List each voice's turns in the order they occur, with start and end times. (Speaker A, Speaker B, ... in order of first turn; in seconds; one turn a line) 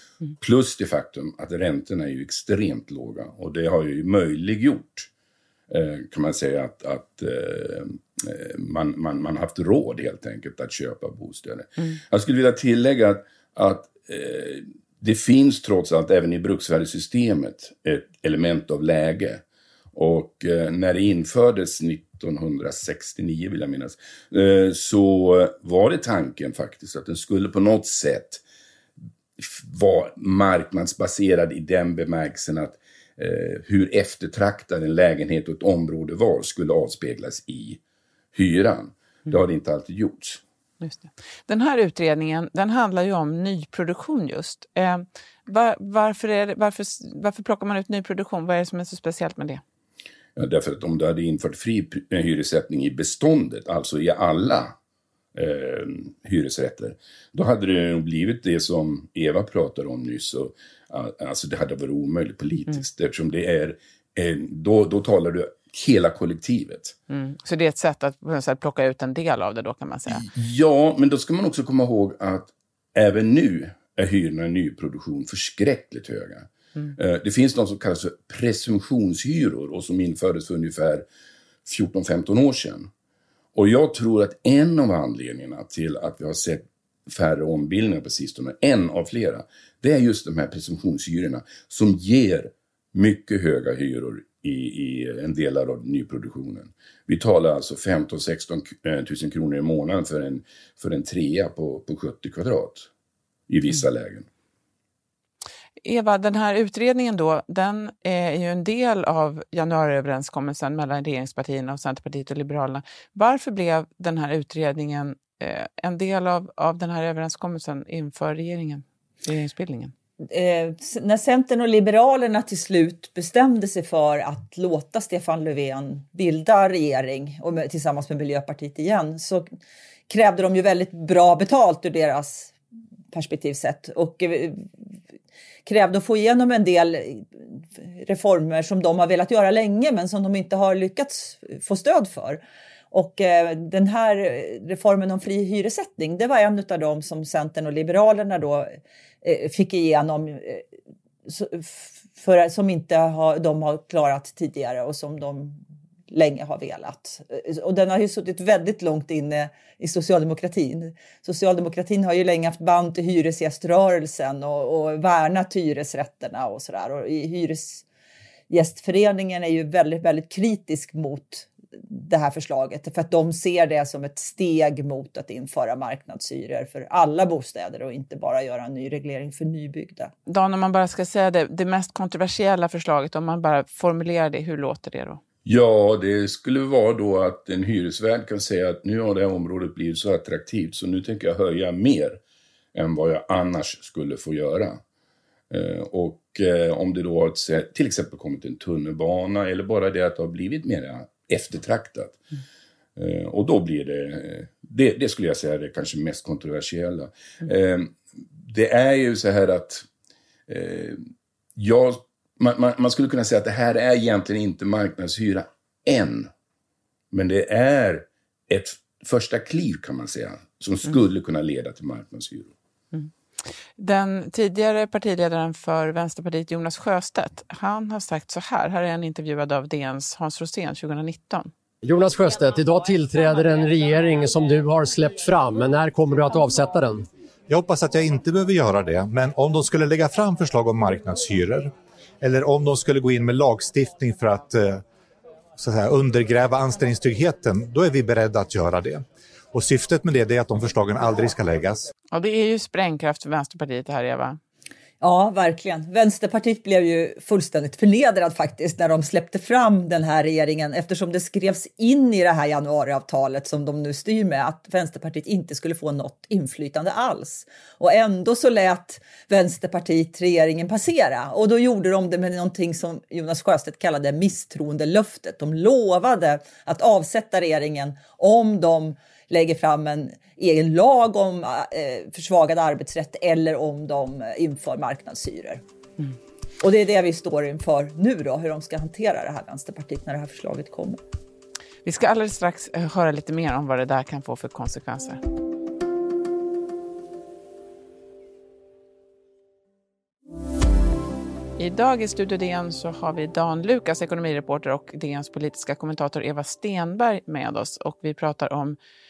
Speaker A: 0.4-5.1
Speaker A: 5.7-28.4
Speaker A: 29.4-37.8
Speaker A: 38.3-40.4
Speaker B: 40.8-49.6
Speaker A: 50.4-54.7
Speaker A: 55.3-67.0
Speaker B: 67.1-70.2
Speaker A: 70.1-81.0
Speaker A: 81.6-82.9
Speaker A: 83.5-102.9
Speaker A: 103.5-104.3
Speaker B: 105.8-119.9
Speaker C: 120.3-129.5
Speaker C: 130.1-132.5
Speaker C: 133.1-134.7
Speaker C: 135.6-150.6
Speaker C: 151.2-167.8
Speaker C: 168.5-180.1
Speaker B: 180.2-185.2
Speaker A: 185.4-192.2
Speaker A: 192.7-194.8
Speaker A: 195.5-202.2
Speaker A: 202.9-209.8
Speaker A: 210.5-211.0
Speaker A: 211.6-216.3
Speaker A: 217.1-222.5
Speaker B: 223.8-231.5
Speaker D: 231.8-237.1
Speaker E: 237.5-244.8
Speaker E: 245.6-249.0
Speaker E: 249.5-251.9
Speaker B: 252.1-254.4
Speaker C: 255.0-285.6
Speaker C: 286.6-291.0
Speaker B: 291.8-295.2
Speaker B: 301.6-308.8